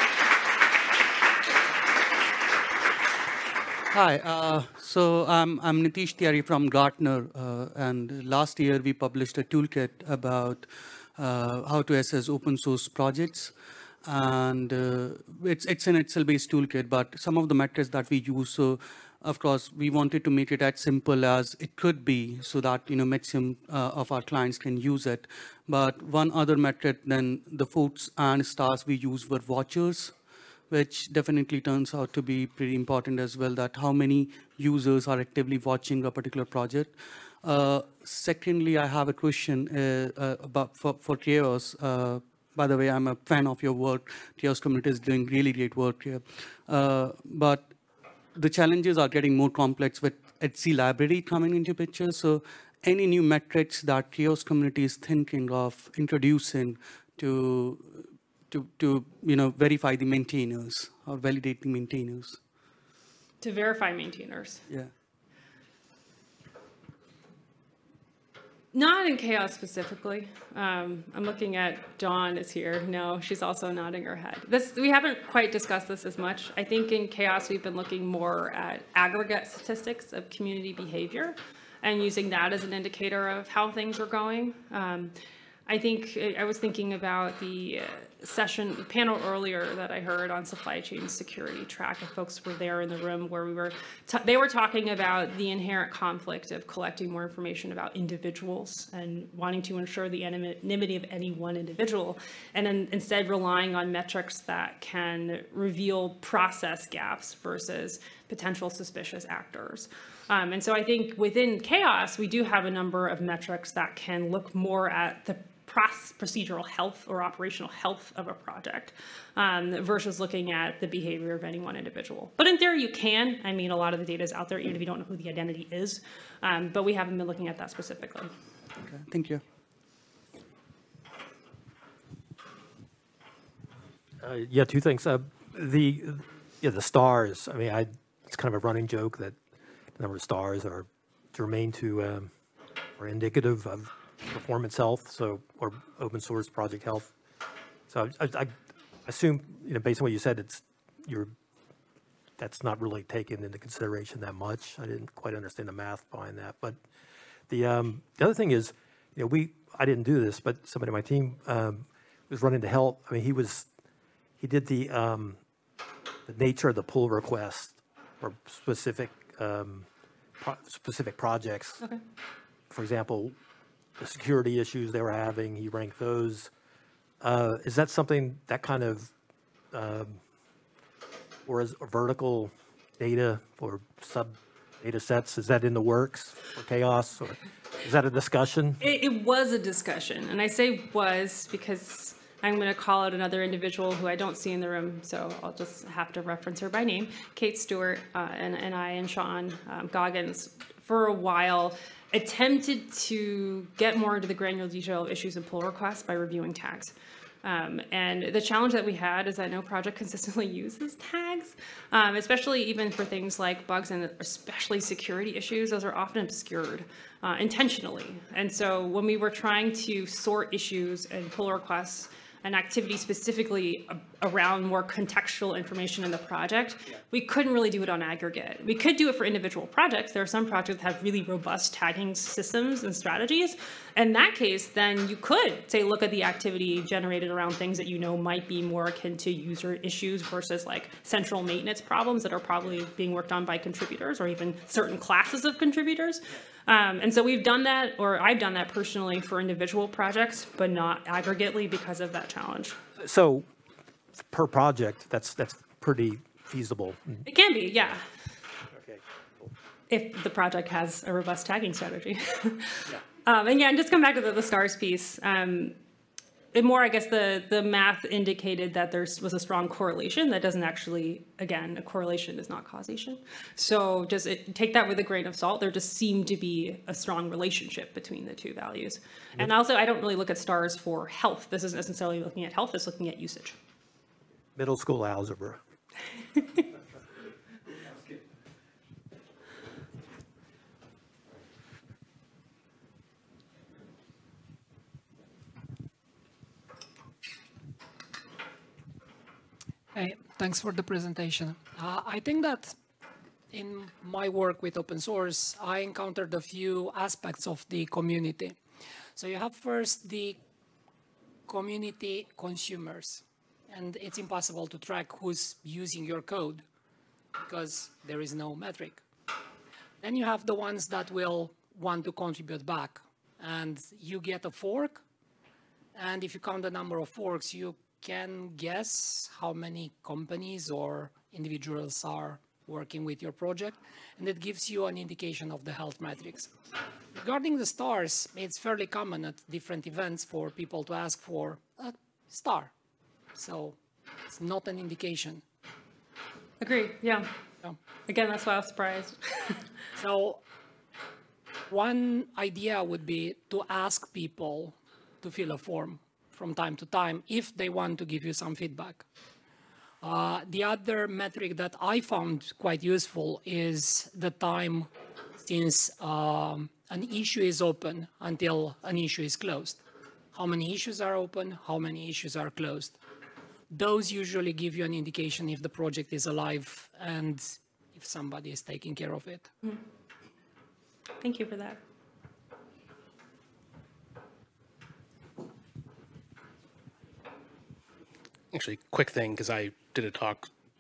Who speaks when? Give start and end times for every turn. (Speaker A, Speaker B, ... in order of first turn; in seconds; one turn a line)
Speaker A: 3.9-47.8
Speaker A: 48.3-62.4
Speaker B: 63.4-64.7
Speaker B: 68.7-85.1
Speaker B: 85.7-128.3
Speaker A: 128.9-129.4
Speaker C: 134.2-139.4
Speaker C: 140.0-142.3
Speaker C: 143.0-147.1
Speaker C: 147.9-148.5
Speaker C: 149.1-151.3
Speaker C: 152.4-156.8
Speaker C: 157.5-163.7
Speaker C: 164.4-165.4
Speaker C: 166.3-169.9
Speaker C: 170.4-171.8
Speaker C: 172.7-173.4
Speaker C: 174.0-176.5
Speaker C: 177.2-179.1
Speaker C: 179.7-180.2
Speaker C: 181.4-188.8
Speaker B: 188.8-252.8
Speaker C: 253.0-253.5
Speaker C: 254.2-257.2
Speaker B: 257.2-258.0
Speaker C: 258.7-259.5
Speaker B: 259.9-265.8
Speaker B: 266.5-283.6
Speaker C: 284.6-285.6
Speaker D: 299.9-302.8
Speaker D: 303.5-308.6
Speaker D: 309.1-310.4
Speaker D: 311.5-316.6
Speaker D: 317.4-319.0
Speaker D: 320.0-325.0
Speaker D: 325.9-336.5
Speaker D: 337.2-342.7
Speaker D: 343.3-343.8
Speaker D: 344.3-345.4
Speaker B: 346.6-347.3
Speaker B: 348.1-349.6
Speaker D: 350.0-350.4
Speaker D: 351.7-359.0
Speaker D: 360.0-369.8
Speaker D: 370.3-373.0
Speaker D: 373.7-379.5
Speaker B: 381.2-381.8
Speaker E: 388.5-390.5